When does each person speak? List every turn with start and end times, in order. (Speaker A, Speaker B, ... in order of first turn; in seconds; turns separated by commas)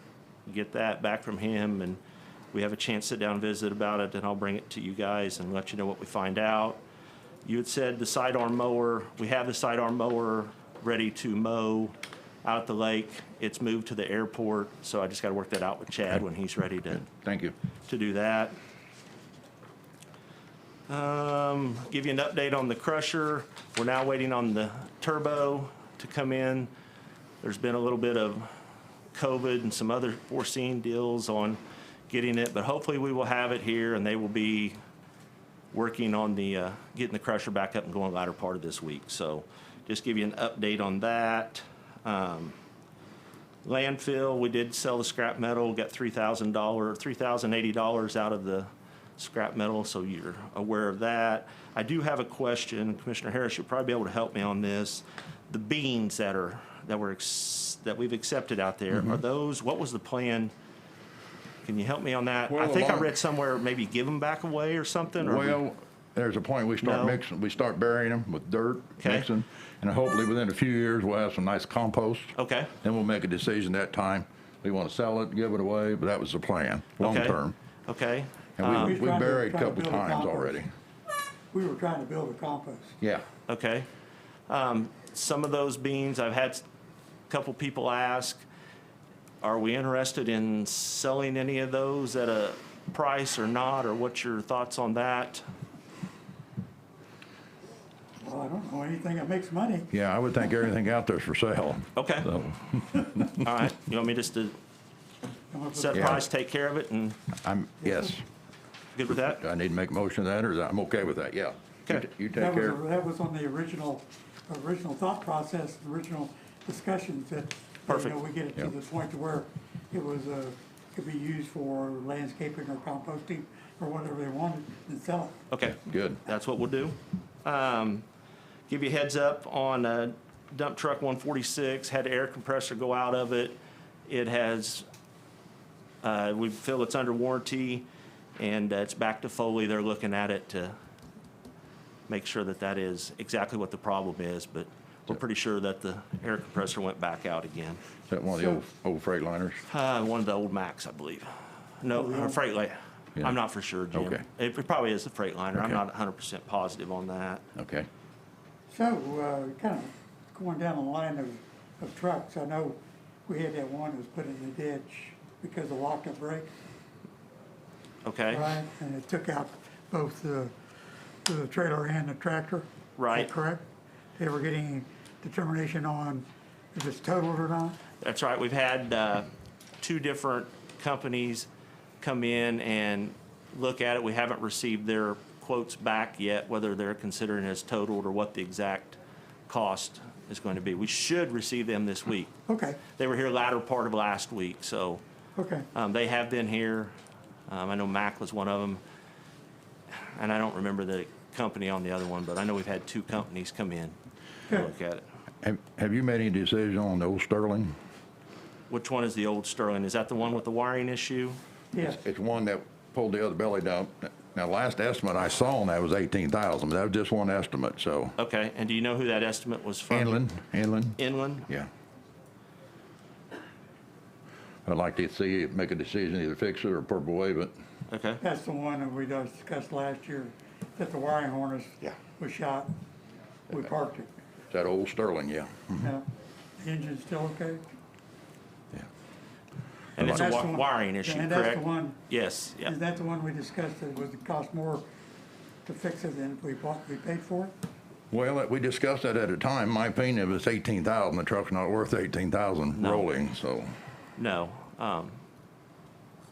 Speaker A: 0.5-2.0, Speaker A: 2.5-6.8, Speaker A: 7.4-17.1, Speaker B: 17.0-17.5, Speaker A: 17.9-18.6, Speaker A: 20.9-26.7, Speaker A: 27.4-28.5, Speaker A: 29.1-34.8, Speaker A: 35.7-42.6, Speaker A: 43.6-60.5, Speaker A: 61.6-65.6, Speaker B: 62.5-63.1, Speaker B: 65.2-77.5, Speaker A: 66.8-67.2, Speaker A: 69.0-69.3, Speaker A: 72.3-72.7, Speaker A: 77.0-78.9, Speaker B: 78.6-80.7, Speaker C: 78.7-80.6, Speaker C: 81.5-83.0, Speaker A: 83.5-83.9, Speaker A: 84.5-86.6, Speaker A: 87.3-88.5, Speaker A: 89.4-95.5, Speaker C: 98.2-99.9, Speaker B: 99.9-103.5, Speaker A: 102.0-102.3, Speaker A: 103.3-104.6, Speaker C: 105.5-106.2, Speaker A: 105.8-107.2, Speaker B: 105.9-106.2, Speaker B: 107.4-108.2, Speaker C: 107.8-108.1, Speaker A: 109.0-109.4, Speaker B: 109.3-112.8, Speaker C: 112.3-125.4, Speaker A: 117.9-118.2, Speaker A: 125.5-128.1, Speaker B: 125.8-126.2, Speaker A: 128.7-134.9, Speaker A: 136.0-137.9, Speaker A: 138.4-140.8, Speaker A: 142.1-147.8, Speaker B: 148.1-149.7, Speaker C: 148.3-148.6, Speaker A: 149.7-157.4, Speaker C: 151.9-152.4, Speaker B: 153.9-154.2, Speaker B: 155.5-155.8, Speaker B: 157.6-157.9, Speaker C: 158.7-166.5, Speaker A: 168.0-168.5, Speaker C: 168.3-170.5, Speaker C: 171.2-173.7, Speaker A: 173.0-173.3, Speaker C: 174.2-177.8, Speaker A: 178.0-181.5, Speaker A: 182.0-192.3, Speaker C: 192.5-192.8, Speaker A: 192.9-195.0, Speaker C: 195.4-195.7, Speaker A: 195.7-196.9, Speaker A: 197.5-198.8, Speaker A: 200.1-204.0, Speaker A: 204.5-205.0, Speaker B: 205.4-207.7, Speaker A: 208.7-211.4, Speaker C: 211.7-212.0, Speaker B: 211.8-218.2, Speaker A: 218.2-220.2, Speaker B: 219.9-221.7, Speaker A: 221.0-221.5, Speaker B: 224.7-227.5, Speaker A: 227.9-228.2, Speaker C: 228.2-232.7, Speaker C: 233.5-234.1, Speaker B: 234.5-235.9, Speaker C: 235.8-236.1, Speaker C: 236.6-237.7, Speaker A: 240.0-242.7, Speaker B: 240.0-240.2, Speaker C: 240.0-242.0, Speaker C: 242.7-244.9, Speaker C: 245.7-247.5, Speaker B: 248.1-253.7, Speaker A: 252.8-253.1, Speaker A: 254.2-255.2